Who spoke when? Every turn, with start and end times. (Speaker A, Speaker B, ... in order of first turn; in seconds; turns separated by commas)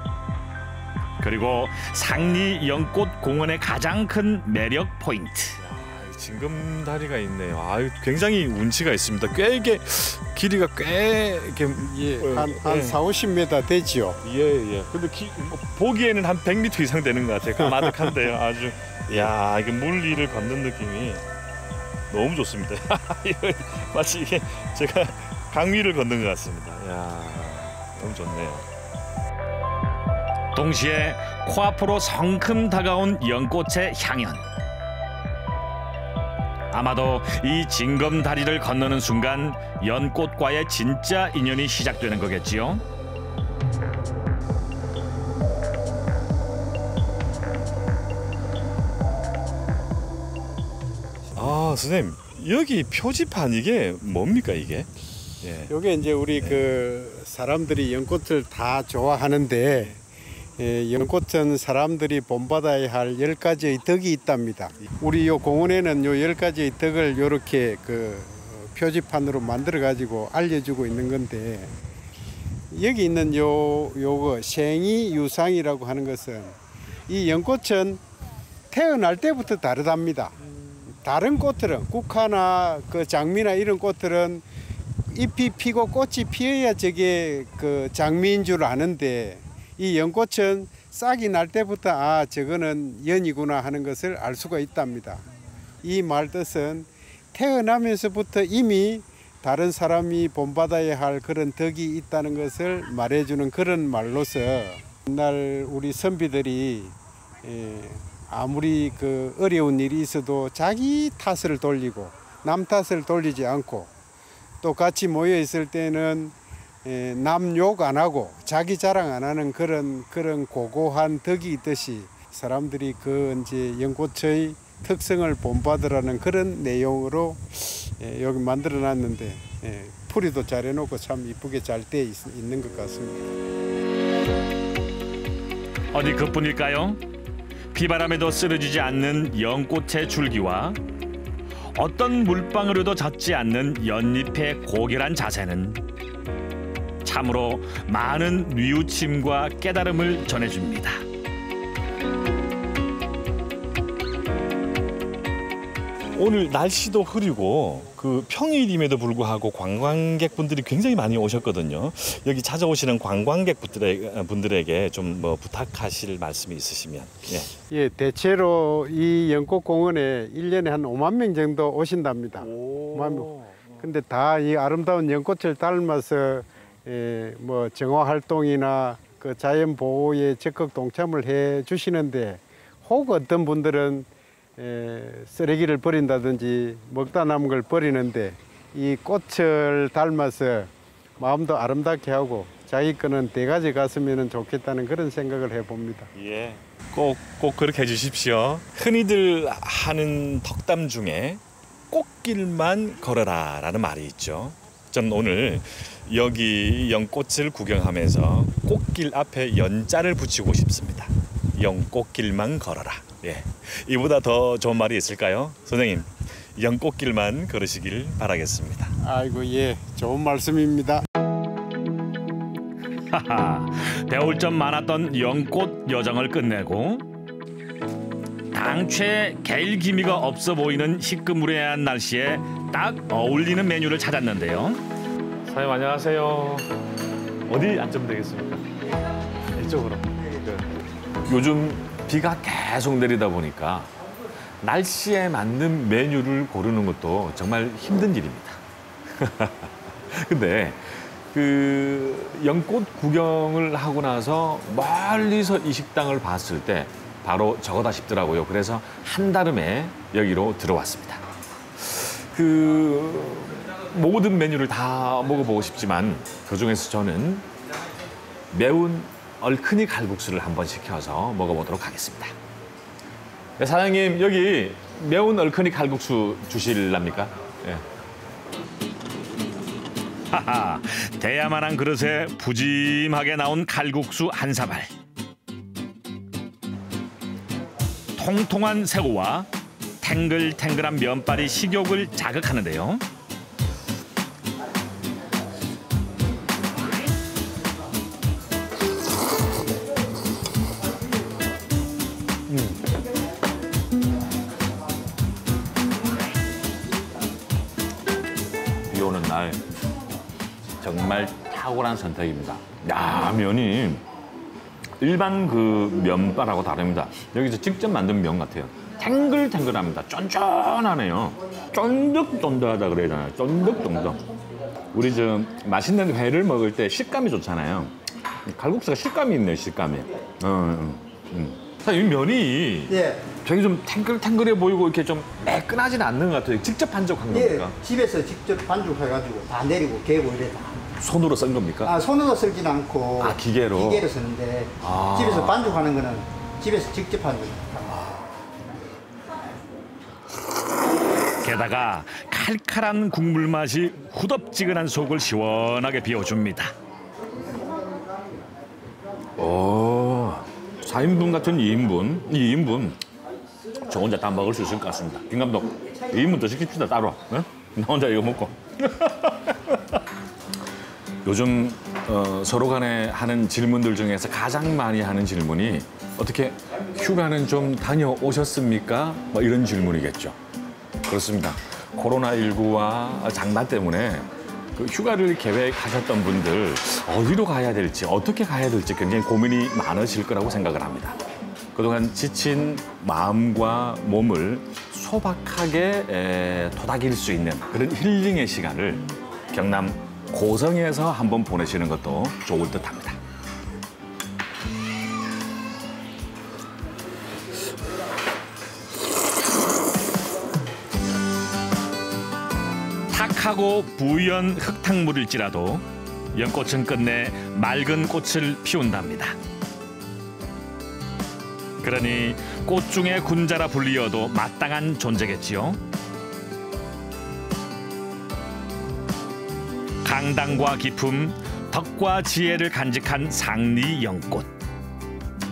Speaker A: 1.2-5.6, Speaker B: 5.6-13.0, Speaker C: 11.8-14.2, Speaker B: 14.2-21.2, Speaker C: 17.7-17.9, Speaker B: 22.1-28.6, Speaker A: 30.5-34.4, Speaker A: 36.7-42.8, Speaker B: 51.3-54.9, Speaker B: 55.4-55.7, Speaker C: 55.7-60.0, Speaker C: 60.6-71.7, Speaker C: 72.7-76.6, Speaker C: 77.1-78.0, Speaker C: 78.7-84.4, Speaker C: 85.1-95.2, Speaker C: 95.8-113.9, Speaker C: 114.6-133.3, Speaker A: 135.9-137.0, Speaker A: 137.7-140.8, Speaker A: 141.7-145.8, Speaker A: 147.0-151.0, Speaker B: 156.1-167.5, Speaker C: 167.7-196.1, Speaker B: 172.4-173.8, Speaker B: 196.1-218.9, Speaker C: 219.0-221.0, Speaker A: 223.1-227.1, Speaker A: 228.5-234.8, Speaker B: 235.4-236.7, Speaker B: 237.5-238.6, Speaker B: 239.5-240.7, Speaker B: 241.2-243.9, Speaker B: 244.6-248.6, Speaker B: 249.2-261.2, Speaker B: 261.8-267.4, Speaker B: 268.5-272.3, Speaker B: 273.6-277.8, Speaker A: 280.3-284.9, Speaker A: 288.1-289.5, Speaker A: 290.0-293.0, Speaker B: 302.5-302.8, Speaker B: 308.9-309.6, Speaker B: 310.8-314.0, Speaker B: 315.0-324.2, Speaker B: 324.9-327.9, Speaker B: 328.4-337.8, Speaker D: 332.9-333.3, Speaker D: 337.3-340.8, Speaker B: 341.0-342.0, Speaker D: 341.8-348.0, Speaker B: 343.2-344.1, Speaker B: 344.8-345.8, Speaker B: 347.9-348.2, Speaker A: 351.4-356.7, Speaker B: 359.4-363.0, Speaker B: 363.8-369.5, Speaker B: 371.2-380.4, Speaker B: 381.0-391.2, Speaker B: 391.7-403.2, Speaker A: 413.1-419.4, Speaker A: 421.8-425.8, Speaker A: 430.0-434.5